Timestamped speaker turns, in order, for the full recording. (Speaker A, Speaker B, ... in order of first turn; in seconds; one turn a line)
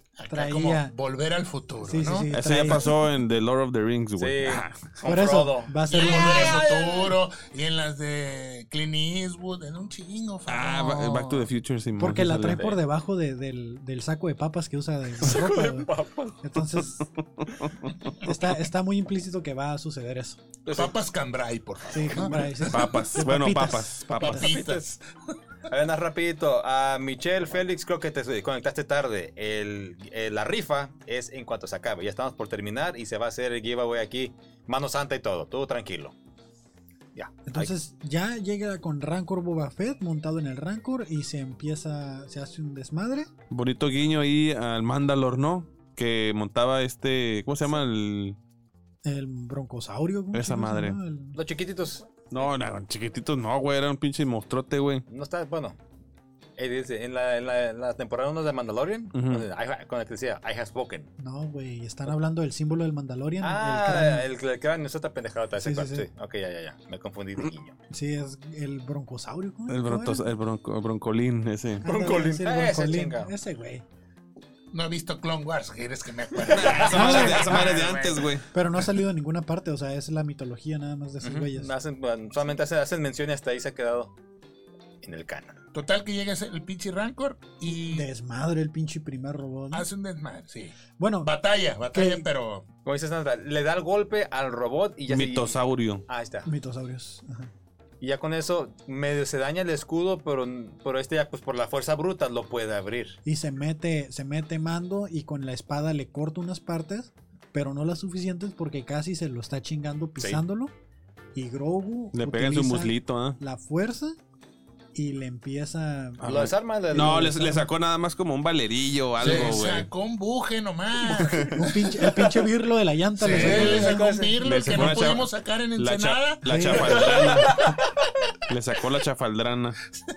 Speaker A: 0.2-2.3
Speaker B: 0.3-0.9
Speaker B: 1.8-2.9
Speaker C: 2.3-5.0
Speaker D: 4.2-7.2
Speaker B: 5.0-6.6
Speaker A: 5.9-11.5
Speaker C: 10.5-12.8
Speaker B: 12.0-15.9
Speaker D: 15.2-16.4
Speaker B: 16.4-17.1
Speaker C: 17.1-18.1
Speaker B: 18.2-20.4
Speaker D: 20.6-20.9
Speaker A: 20.8-22.9
Speaker B: 21.9-24.6
Speaker C: 22.7-24.4
Speaker D: 24.2-24.9
Speaker A: 24.2-25.0
Speaker D: 25.7-36.1
Speaker D: 37.1-37.7
Speaker B: 37.5-43.3
Speaker C: 43.5-48.4
Speaker B: 49.0-51.4
Speaker C: 50.3-51.0
Speaker D: 51.4-52.1
Speaker C: 52.3-55.0
Speaker D: 55.1-55.8
Speaker D: 56.6-61.1
Speaker C: 59.1-59.5
Speaker B: 61.2-64.2
Speaker D: 63.4-67.8
Speaker B: 65.6-66.1
Speaker B: 67.9-70.2
Speaker C: 69.7-71.8
Speaker D: 71.8-73.3
Speaker B: 71.8-73.8
Speaker A: 74.7-78.2
Speaker D: 76.5-77.9
Speaker C: 76.5-78.5
Speaker B: 76.9-77.7
Speaker B: 78.5-81.7
Speaker D: 81.2-84.1
Speaker D: 85.0-85.6
Speaker A: 85.7-88.1
Speaker B: 87.7-89.9
Speaker A: 89.7-92.7
Speaker B: 91.0-91.3
Speaker B: 91.9-92.3
Speaker D: 92.8-96.5
Speaker C: 95.1-96.0
Speaker B: 96.5-97.5
Speaker D: 98.0-103.2
Speaker B: 103.2-110.7
Speaker D: 110.2-110.4
Speaker B: 111.3-114.2
Speaker C: 112.1-113.4
Speaker B: 114.9-117.7
Speaker D: 116.2-117.4
Speaker C: 116.2-119.9
Speaker A: 119.2-121.7
Speaker C: 121.2-121.6
Speaker B: 121.5-124.1
Speaker A: 123.2-127.3
Speaker D: 123.2-125.0
Speaker C: 124.4-127.6
Speaker B: 126.5-127.0
Speaker D: 127.0-127.8
Speaker C: 128.5-129.8